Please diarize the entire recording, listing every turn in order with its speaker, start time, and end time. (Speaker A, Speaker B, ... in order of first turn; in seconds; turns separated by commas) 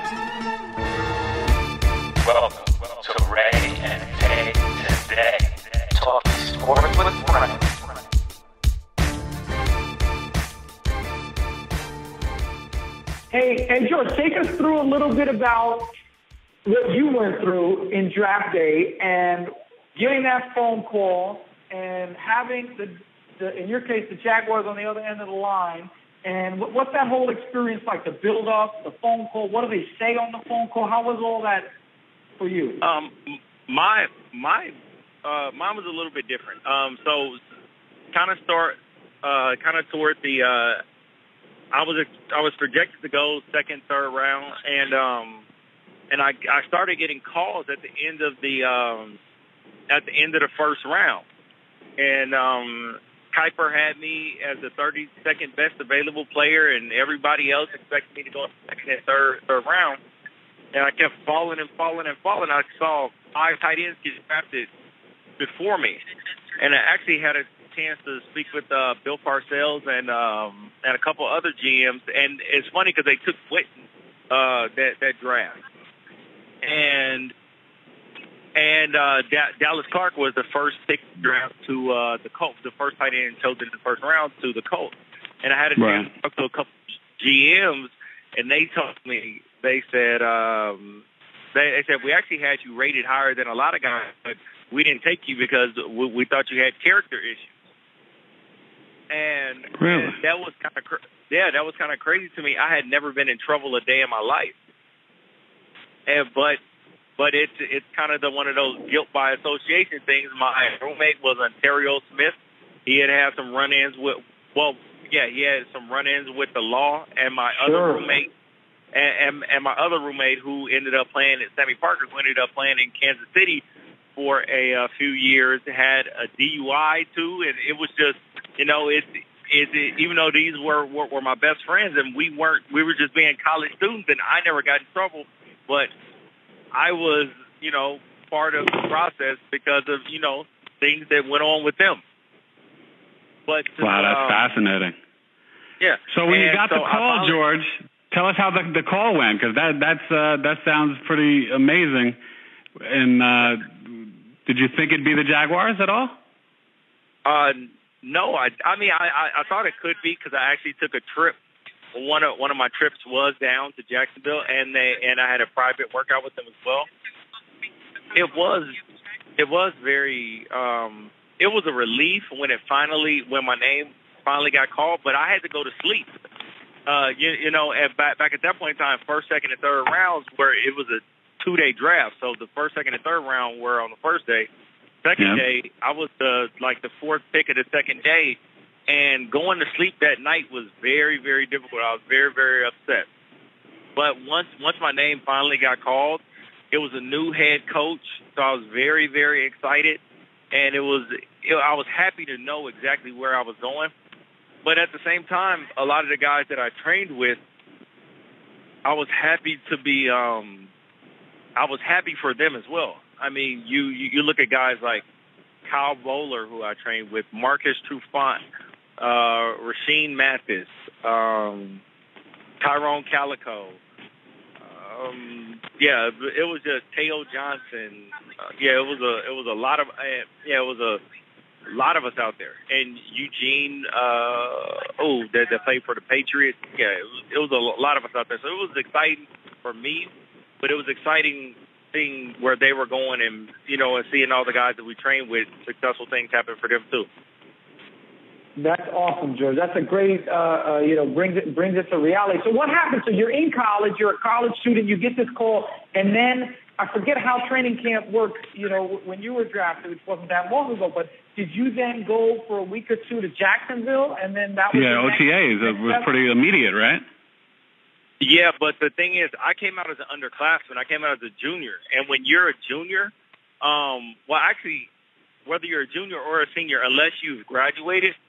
Speaker A: 2.2-7.7, Speaker B: 13.3-15.9, Speaker B: 16.6-31.7, Speaker B: 32.4-32.8, Speaker C: 32.8-34.7, Speaker C: 35.2-37.4, Speaker C: 38.1-40.8, Speaker C: 41.7-45.5, Speaker C: 46.1-49.2, Speaker C: 49.9-51.2, Speaker C: 52.0-60.0, Speaker C: 60.7-64.7, Speaker C: 65.4-66.0, Speaker C: 66.6-75.6, Speaker C: 76.6-77.3, Speaker C: 78.5-97.5, Speaker D: 85.8-86.1, Speaker C: 99.1-104.5, Speaker D: 99.8-100.2, Speaker C: 106.1-106.6, Speaker C: 107.2-118.3, Speaker B: 117.6-118.1, Speaker C: 118.9-123.6, Speaker C: 124.2-135.9, Speaker C: 136.7-142.0, Speaker C: 143.5-144.6, Speaker D: 143.8-144.9, Speaker C: 145.8-147.4, Speaker D: 146.1-152.2, Speaker D: 152.8-156.2, Speaker C: 157.2-161.4, Speaker C: 161.9-166.9, Speaker C: 168.1-168.8, Speaker C: 169.4-176.1, Speaker C: 176.9-184.5, Speaker C: 185.0-193.1, Speaker D: 185.2-185.4, Speaker C: 194.0-200.0, Speaker C: 200.5-203.9, Speaker C: 204.6-207.4, Speaker C: 208.8-210.7, Speaker C: 211.6-215.0, Speaker C: 215.7-218.4, Speaker C: 219.0-221.8, Speaker C: 222.6-223.8, Speaker C: 224.6-231.0, Speaker C: 231.7-247.1, Speaker B: 248.6-266.1, Speaker D: 264.7-267.0, Speaker C: 268.2-274.9, Speaker C: 275.5-278.2